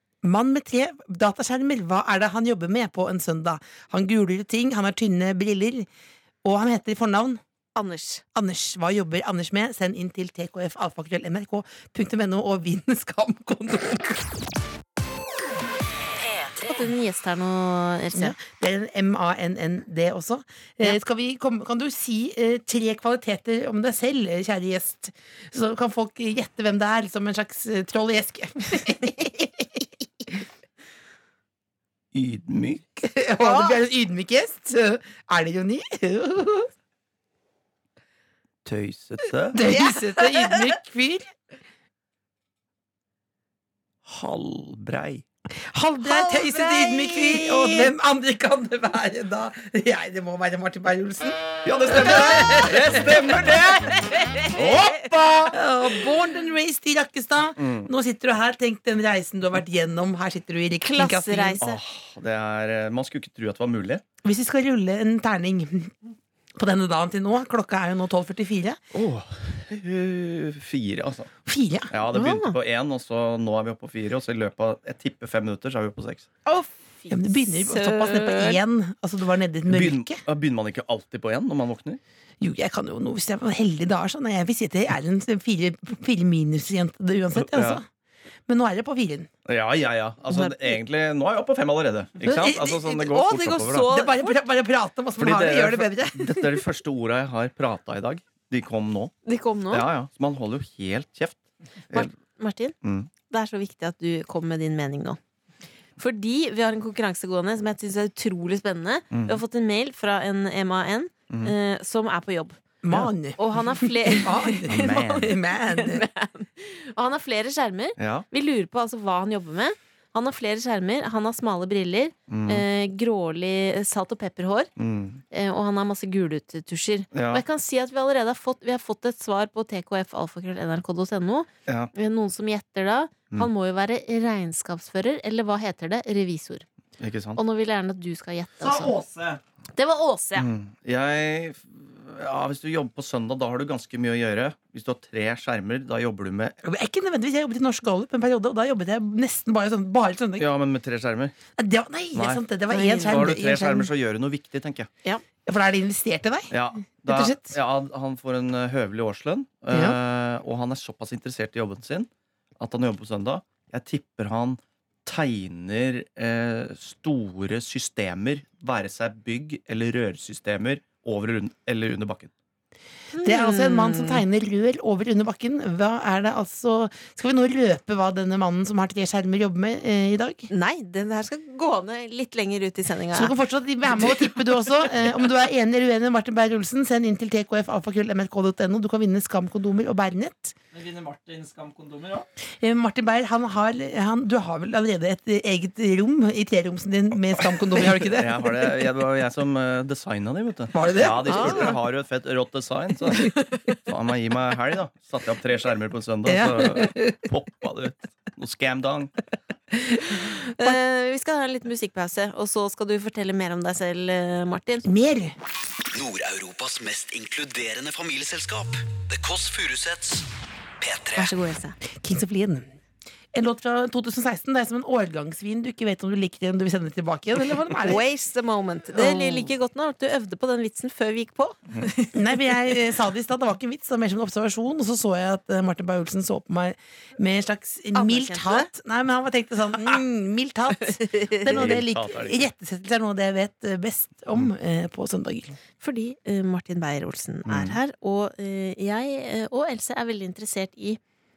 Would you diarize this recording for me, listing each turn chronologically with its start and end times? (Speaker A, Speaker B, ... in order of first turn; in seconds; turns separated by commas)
Speaker A: 0.2-5.9, Speaker A: 6.4-7.4, Speaker B: 7.8-8.2, Speaker A: 8.3-14.3, Speaker B: 16.5-18.4, Speaker A: 18.1-30.4, Speaker C: 32.1-32.9, Speaker A: 33.0-36.7, Speaker B: 33.4-33.7, Speaker C: 38.6-39.6, Speaker A: 39.5-41.3, Speaker B: 39.6-40.7, Speaker C: 44.1-45.2, Speaker A: 45.7-53.2, Speaker B: 46.0-47.9, Speaker C: 51.6-55.6, Speaker B: 53.8-55.1, Speaker A: 55.5-61.6, Speaker C: 57.6-57.9, Speaker B: 60.8-61.8, Speaker C: 61.6-64.0, Speaker A: 64.2-65.9, Speaker A: 66.6-68.8, Speaker C: 68.9-71.3, Speaker A: 71.5-71.9, Speaker C: 71.9-76.3, Speaker B: 72.1-72.6, Speaker B: 76.5-78.6, Speaker A: 77.1-80.2, Speaker C: 79.7-82.0, Speaker A: 82.4-87.9, Speaker C: 87.3-87.8, Speaker A: 88.5-89.3, Speaker C: 89.5-93.9, Speaker B: 90.3-90.8, Speaker A: 92.2-93.0, Speaker B: 92.5-94.4, Speaker A: 93.9-96.6, Speaker C: 95.2-99.1, Speaker B: 99.2-99.9, Speaker C: 99.7-101.4, Speaker B: 101.9-102.7, Speaker C: 102.8-103.1, Speaker B: 103.3-105.2, Speaker B: 106.0-112.6, Speaker C: 109.1-109.4, Speaker A: 112.8-116.0, Speaker B: 113.4-124.7, Speaker C: 114.7-115.3, Speaker C: 118.0-118.3, Speaker C: 122.3-122.7, Speaker C: 124.8-125.2, Speaker B: 125.3-136.7, Speaker C: 127.1-127.4, Speaker C: 131.7-131.9, Speaker C: 137.0-137.4, Speaker B: 137.4-139.0, Speaker D: 138.6-139.4, Speaker B: 139.8-140.5, Speaker C: 140.4-146.6, Speaker A: 146.6-150.5, Speaker C: 150.4-151.3, Speaker A: 151.6-153.9, Speaker C: 152.1-154.9, Speaker B: 152.7-153.2, Speaker A: 155.5-156.5, Speaker C: 156.5-172.3, Speaker A: 157.1-157.6, Speaker A: 159.7-160.0, Speaker B: 173.1-174.2, Speaker A: 173.2-180.5, Speaker B: 180.5-183.3, Speaker A: 183.1-190.6, Speaker B: 184.0-184.2, Speaker D: 190.7-192.3, Speaker A: 192.6-198.7, Speaker C: 197.9-209.1, Speaker A: 200.7-201.7, Speaker B: 201.3-201.8, Speaker A: 206.3-207.3, Speaker B: 210.1-214.9, Speaker A: 214.8-215.4, Speaker E: 215.9-220.3, Speaker E: 220.8-221.3, Speaker B: 221.2-221.8, Speaker A: 222.0-222.7, Speaker A: 223.3-228.0, Speaker B: 227.8-232.1, Speaker A: 228.9-229.5, Speaker A: 232.1-245.6, Speaker B: 237.9-238.7, Speaker B: 241.0-241.7, Speaker C: 241.5-242.4, Speaker B: 245.8-251.0, Speaker C: 247.5-247.8